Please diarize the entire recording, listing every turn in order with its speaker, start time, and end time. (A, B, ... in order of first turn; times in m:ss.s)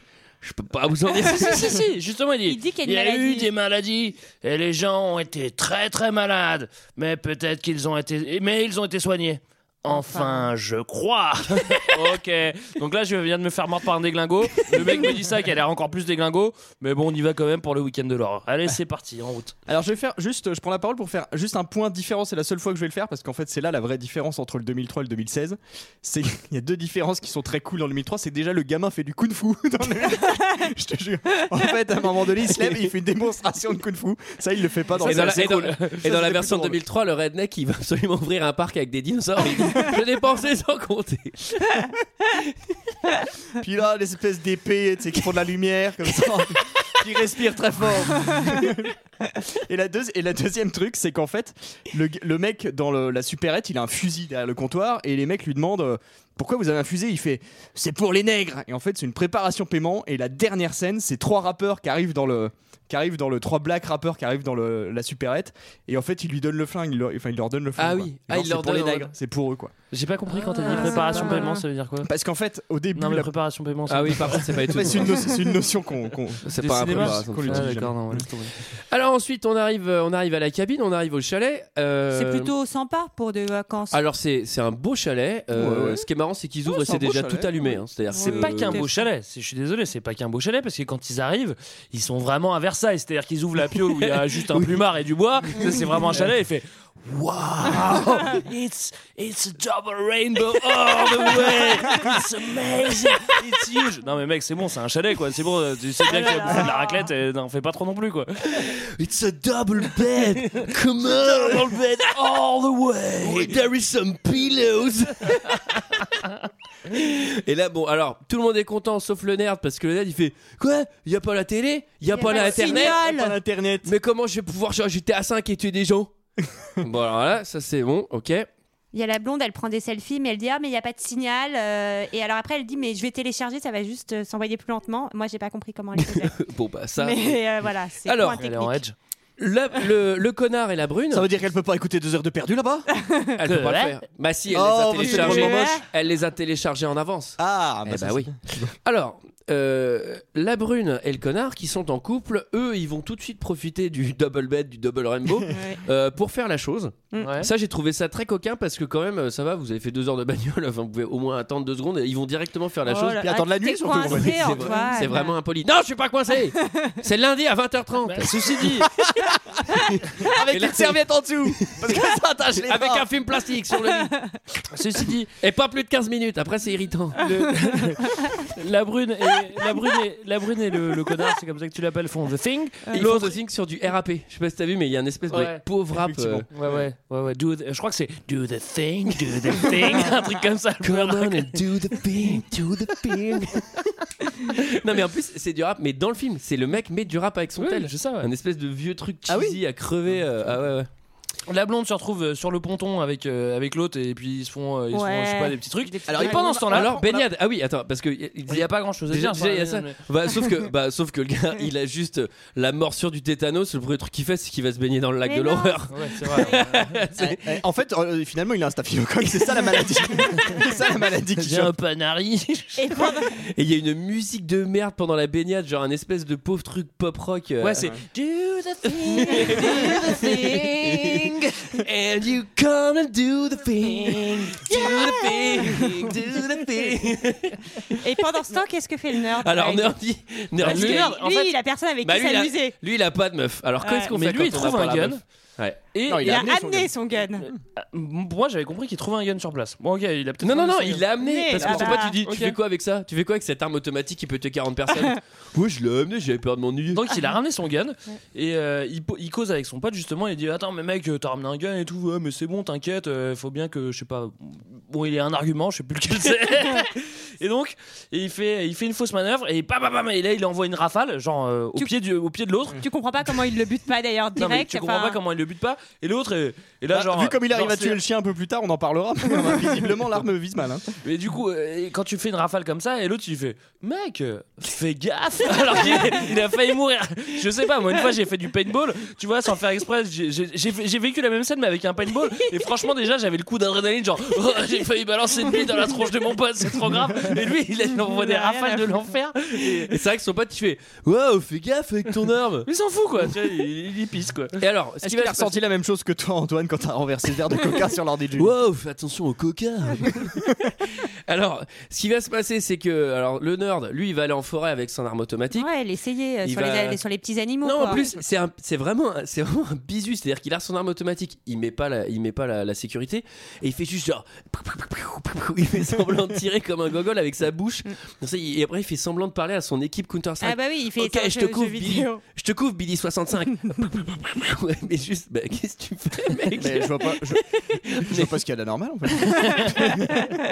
0:00.4-0:01.8 A
0:01.4-0:19.5 B
0:02.4-0:03.5 C
0:09.9-0:10.5 C
0:19.7-0:36.8 D
0:35.0-0:42.5 A
0:35.0-0:35.9 B
0:43.6-0:48.9 D
0:49.6-1:09.7 D
1:07.8-1:09.1 A
1:09.9-1:12.1 B
1:10.6-1:11.6 C
1:10.6-1:10.9 A
1:12.0-1:13.3 D
1:12.9-1:15.0 B
1:13.9-1:15.2 A
1:14.2-1:18.3 D
1:16.4-1:17.9 A
1:16.6-1:18.5 B
1:18.9-1:22.5 A
1:22.1-1:24.0 C
1:23.9-1:28.8 A
1:25.5-1:26.0 D
1:26.6-1:27.8 D
1:28.1-1:28.9 C
1:28.2-1:48.6 B
1:34.0-1:34.7 A
1:35.6-1:36.2 A
1:40.6-1:41.9 A
1:46.1-1:47.0 C
1:48.5-1:52.0 A
1:50.5-1:53.6 B
1:53.2-1:55.8 A
1:56.9-2:03.1 A
2:02.1-2:03.4 C
2:02.2-2:03.9 D
2:03.8-2:06.1 A
2:06.8-2:08.5 A
2:08.9-2:16.3 C
2:16.0-2:18.4 A
2:17.0-2:18.8 C
2:18.4-2:18.9 B
2:19.4-2:21.2 A
2:21.1-2:22.9 D
2:23.0-2:23.3 C
2:23.4-2:43.3 A
2:23.4-2:24.0 B
2:24.5-2:25.8 D
2:25.0-2:25.8 C
2:27.4-2:28.7 D
2:35.5-2:35.8 C
2:37.2-2:37.5 B
2:42.8-2:45.3 C
2:43.1-2:44.9 D
2:43.9-2:48.9 A
2:46.6-2:47.0 C
2:48.0-2:48.9 B
2:49.0-2:49.3 D
2:49.7-2:51.0 A
2:50.2-2:53.1 D
2:51.6-2:54.1 A
2:54.1-2:54.4 C
2:54.7-2:55.3 B
2:55.4-2:57.3 A
2:57.2-2:58.0 B
2:58.5-3:03.2 B
3:02.9-3:03.3 C
3:02.9-3:06.5 A
3:05.3-3:05.6 B
3:05.9-3:06.8 D
3:06.5-3:13.4 B
3:10.8-3:13.9 A
3:14.5-3:20.9 A
3:17.6-3:18.3 B
3:19.3-3:19.6 D
3:21.5-3:27.0 B
3:24.9-3:26.7 C
3:26.1-3:27.3 D
3:26.6-3:37.6 A
3:28.5-3:30.0 B
3:35.2-3:35.8 C
3:35.9-3:36.8 B
3:37.2-3:41.7 D
3:41.4-3:43.1 B
3:42.8-3:43.3 C
3:43.4-3:47.9 A
3:47.6-3:51.6 B
3:49.0-3:58.1 A
3:49.3-3:49.7 C
3:53.8-3:55.8 B
3:58.0-4:00.0 C
3:59.2-4:01.1 A
4:00.6-4:01.5 B
4:00.6-4:02.8 C
4:02.0-4:05.8 A
4:03.8-4:04.1 C
4:04.1-4:05.2 B
4:05.9-4:06.4 B
4:06.1-4:06.9 D
4:06.2-4:07.5 C
4:07.8-4:11.0 B
4:10.4-4:17.2 A
4:11.2-4:12.2 C
4:11.7-4:12.6 B
4:16.9-4:32.8 B
4:32.7-4:35.2 C
4:34.4-4:38.0 B
4:36.9-4:40.8 D
4:41.0-4:59.9 B
4:58.2-4:58.8 C
4:59.6-5:02.7 A
5:02.6-5:04.6 B
5:04.6-5:05.5 A
5:05.0-5:08.5 D
5:08.4-5:15.7 A
5:15.5-5:18.1 C
5:16.4-5:17.0 A
5:17.6-5:38.3 A
5:30.4-5:32.2 C
5:36.6-5:37.4 D
5:38.0-5:40.1 D